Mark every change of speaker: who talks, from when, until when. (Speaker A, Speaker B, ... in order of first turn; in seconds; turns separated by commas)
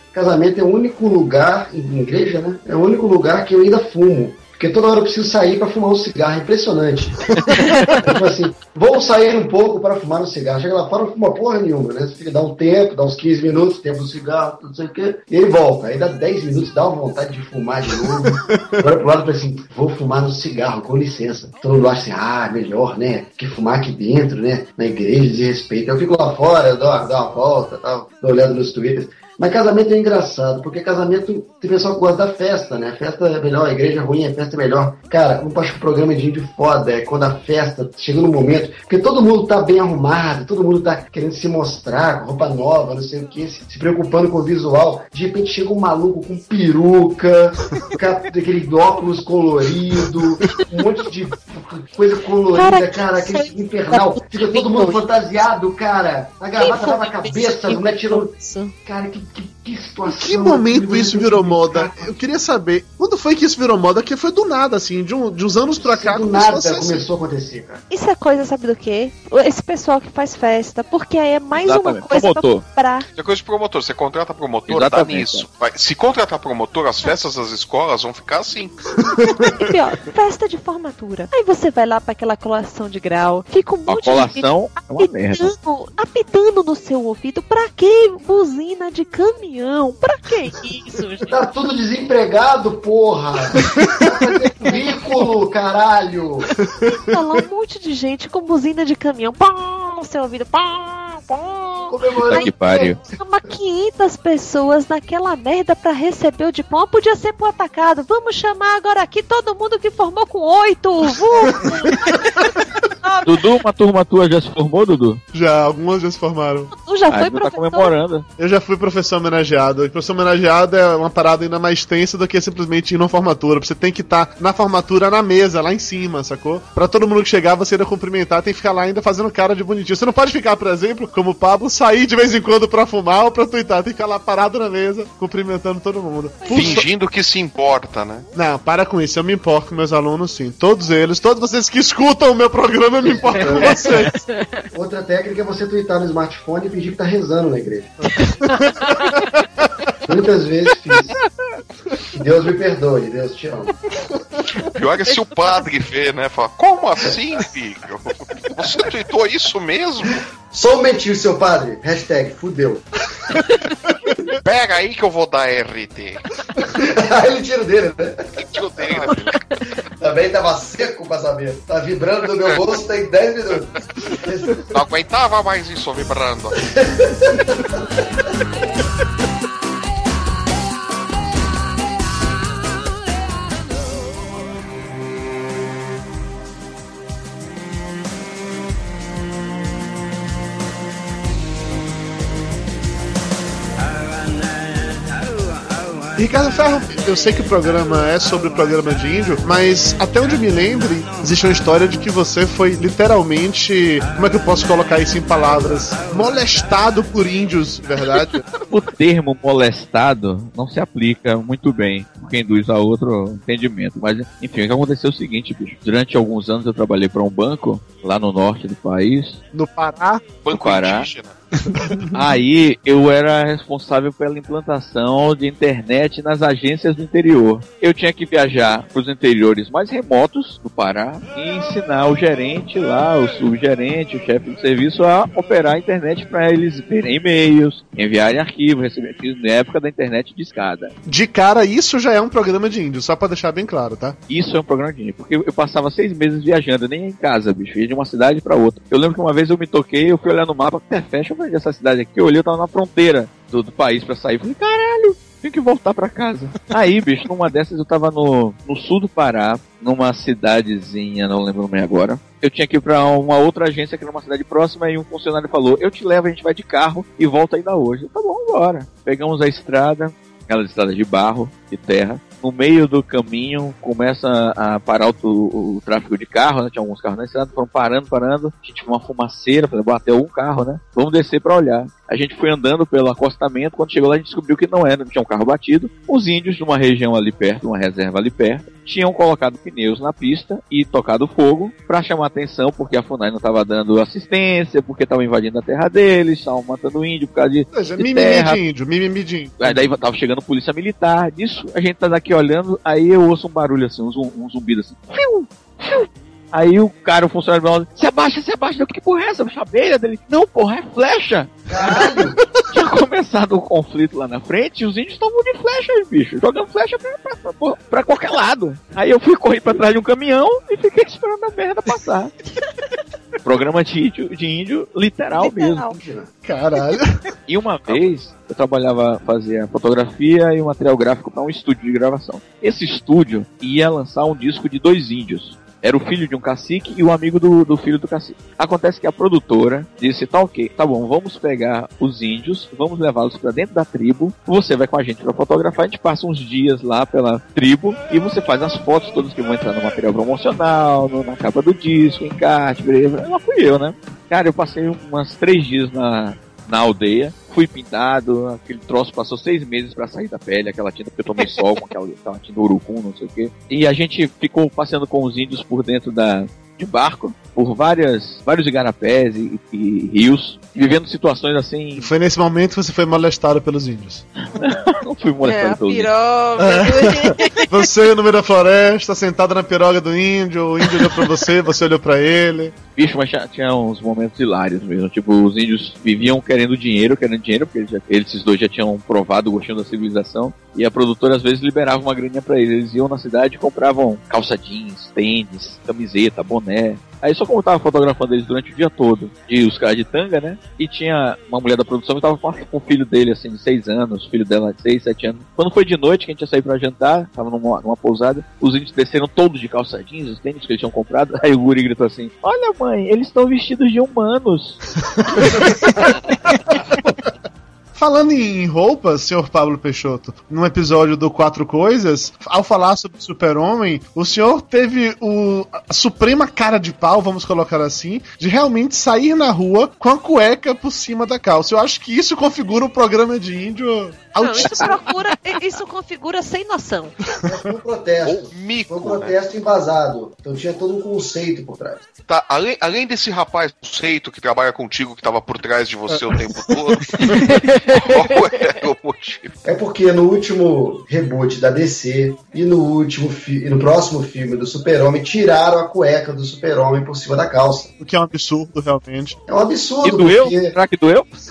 Speaker A: 0.1-7.2, Speaker B: 7.5-8.1, Speaker A: 8.0-58.3, Speaker C: 18.2-18.8, Speaker B: 52.5-55.0, Speaker B: 56.6-58.7, Speaker A: 58.8-62.2, Speaker C: 60.1-67.0, Speaker A: 65.8-67.8, Speaker B: 67.9-73.0, Speaker D: 71.5-72.7, Speaker E: 73.1-78.8, Speaker D: 74.7-75.4, Speaker C: 79.1-79.5, Speaker B: 79.5-91.3, Speaker D: 83.8-85.5, Speaker A: 91.3-96.5, Speaker B: 94.6-95.0, Speaker C: 96.6-97.1, Speaker B: 97.1-113.4, Speaker A: 101.9-102.9, Speaker D: 102.3-103.0, Speaker D: 113.2-115.2, Speaker C: 115.3-116.7, Speaker B: 116.7-117.9, Speaker D: 117.1-118.2, Speaker C: 118.4-136.8, Speaker B: 136.4-136.9, Speaker E: 136.5-138.2, Speaker C: 138.3-144.1, Speaker A: 143.0-143.9, Speaker B: 143.7-144.7, Speaker A: 144.7-148.1, Speaker B: 148.6-149.2, Speaker A: 150.1-151.2, Speaker A: 152.1-153.8, Speaker E: 154.8-160.2, Speaker A: 160.5-162.8, Speaker E: 164.4-166.2, Speaker A: 166.8-169.1, Speaker E: 168.4-169.4, Speaker A: 170.0-174.7, Speaker E: 174.7-176.6, Speaker A: 176.7-177.8, Speaker C: 196.2-208.4, Speaker D: 208.6-219.4, Speaker C: 219.5-220.2, Speaker E: 220.4-221.4, Speaker D: 220.5-221.1, Speaker C: 221.7-222.0, Speaker D: 222.1-240.9, Speaker C: 241.1-244.2, Speaker D: 244.3-298.6, Speaker C: 297.7-299.8, Speaker D: 299.6-311.6, Speaker A: 311.7-312.4, Speaker C: 311.8-312.4, Speaker D: 312.7-322.3, Speaker D: 323.4-325.8, Speaker B: 325.3-326.0, Speaker A: 325.9-326.3, Speaker C: 326.4-327.1, Speaker D: 327.5-372.1, Speaker C: 372.0-374.3, Speaker D: 374.5-376.1, Speaker B: 375.4-377.7, Speaker C: 376.6-382.7, Speaker D: 382.9-414.8, Speaker C: 416.7-417.1, Speaker C: 417.9-435.2, Speaker B: 434.4-437.2, Speaker D: 434.6-435.0, Speaker A: 437.4-442.1, Speaker E: 438.2-439.4, Speaker E: 442.3-447.3, Speaker B: 447.4-448.6, Speaker E: 447.9-449.6, Speaker A: 449.6-457.9, Speaker C: 458.0-459.4, Speaker A: 459.5-460.8, Speaker D: 460.0-461.3